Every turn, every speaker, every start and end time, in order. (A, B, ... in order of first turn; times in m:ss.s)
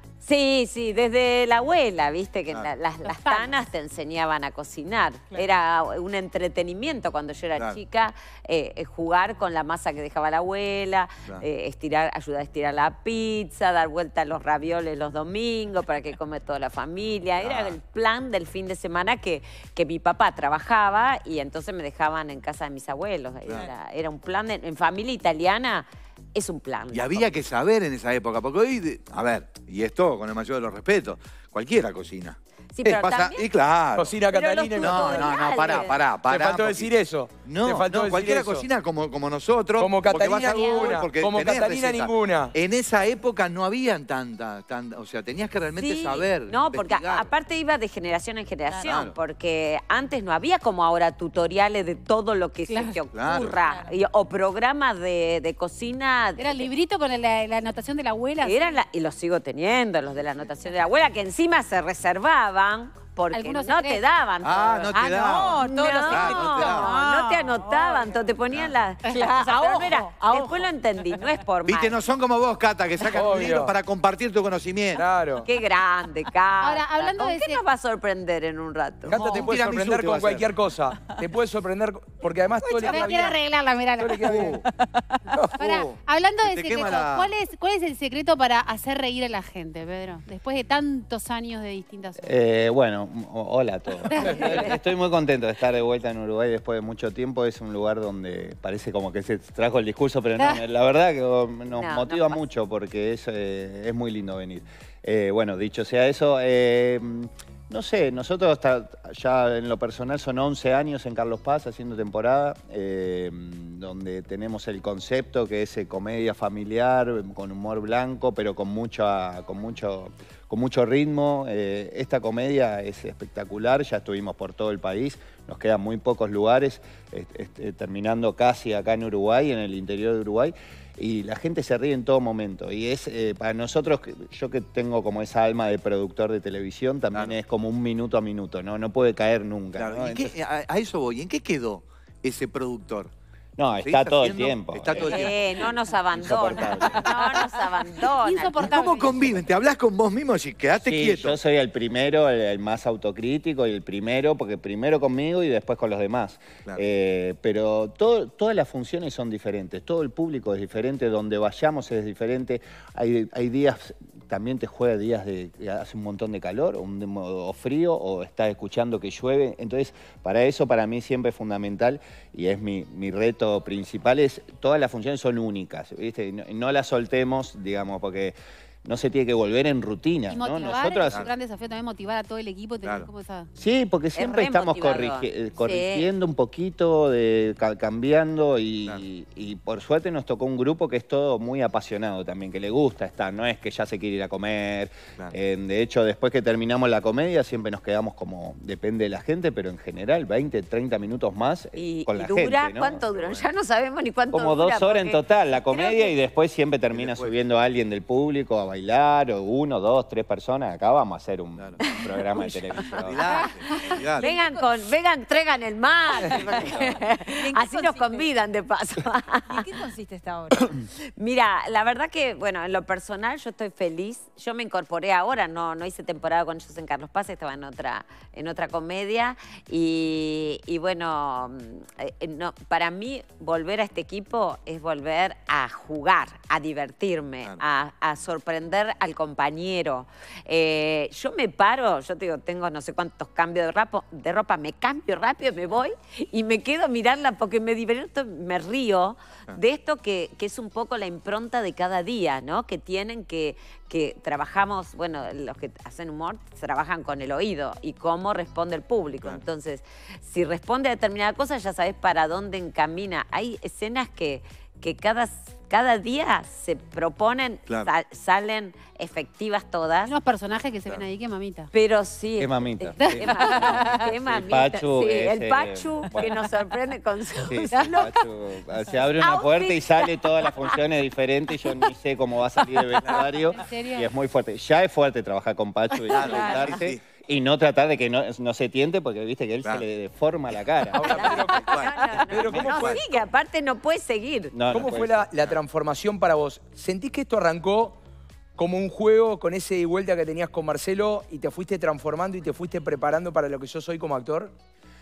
0:00.2-0:27.3 A
0:03.2-0:03.5 B
0:17.4-0:17.8 C
0:26.9-0:34.1 C
0:32.7-0:33.5 A
0:34.0-0:35.3 D
0:34.3-0:36.0 A
0:34.8-0:36.9 C
0:36.3-0:38.6 D
0:37.4-0:47.3 C
0:39.8-0:42.5 D
0:45.8-0:56.7 A
0:48.7-0:49.1 E
0:48.8-0:49.1 C
0:52.7-0:53.0 B
0:53.1-0:53.6 C
0:53.3-0:53.9 E
0:56.4-0:58.8 B
0:58.4-1:12.0 A
1:03.3-1:04.0 B
1:04.4-1:06.9 C
1:05.1-1:08.2 E
1:09.1-1:10.7 E
1:09.1-1:09.4 B
1:11.6-1:15.0 C
1:13.1-1:13.7 D
1:15.0-1:15.5 D
1:15.4-1:19.2 A
1:16.6-1:17.6 B
1:19.0-1:23.4 D
1:19.1-1:20.7 C
1:22.6-1:23.4 C
1:22.8-1:24.6 B
1:24.0-1:24.6 D
1:24.8-1:25.2 E
1:25.5-1:27.3 C
1:25.6-1:32.4 B
1:32.2-2:20.3 F
1:34.0-1:34.7 B
1:40.3-1:40.6 B
1:41.7-1:42.4 A
2:19.8-2:23.1 C
2:23.6-2:25.3 F
2:23.8-2:26.9 C
2:25.0-2:28.7 A
2:26.1-2:27.1 F
2:28.0-2:29.5 B
2:28.6-2:31.3 C
2:30.8-3:01.2 F
3:00.3-3:03.5 B
3:00.6-3:01.3 C
3:02.8-3:03.1 C
3:03.6-3:23.4 F
3:04.1-3:06.1 A
3:21.8-3:26.1 A
3:24.3-3:33.5 F
3:26.9-3:27.3 C
3:31.8-3:32.5 A
3:32.8-3:34.3 C
3:33.3-3:34.7 E
3:33.7-3:39.8 A
3:36.3-3:36.9 C
3:36.5-3:37.0 F
3:37.3-3:38.3 E
3:39.5-3:40.7 E
3:41.1-4:30.1 A
4:30.0-4:31.7 B
4:31.7-4:38.1 A
4:32.4-4:36.4 F
4:33.1-4:34.0 B
4:37.5-4:51.4 F
4:39.2-4:40.8 A
4:41.6-4:41.9 A
4:43.0-4:44.1 B
4:46.1-4:47.0 C
4:46.2-4:46.7 E
4:50.5-4:53.0 C
4:50.9-4:53.2 D
4:51.0-4:54.5 A
4:52.4-4:53.0 F
4:54.5-4:55.2 F
4:54.7-4:58.0 D
4:58.6-5:04.5 D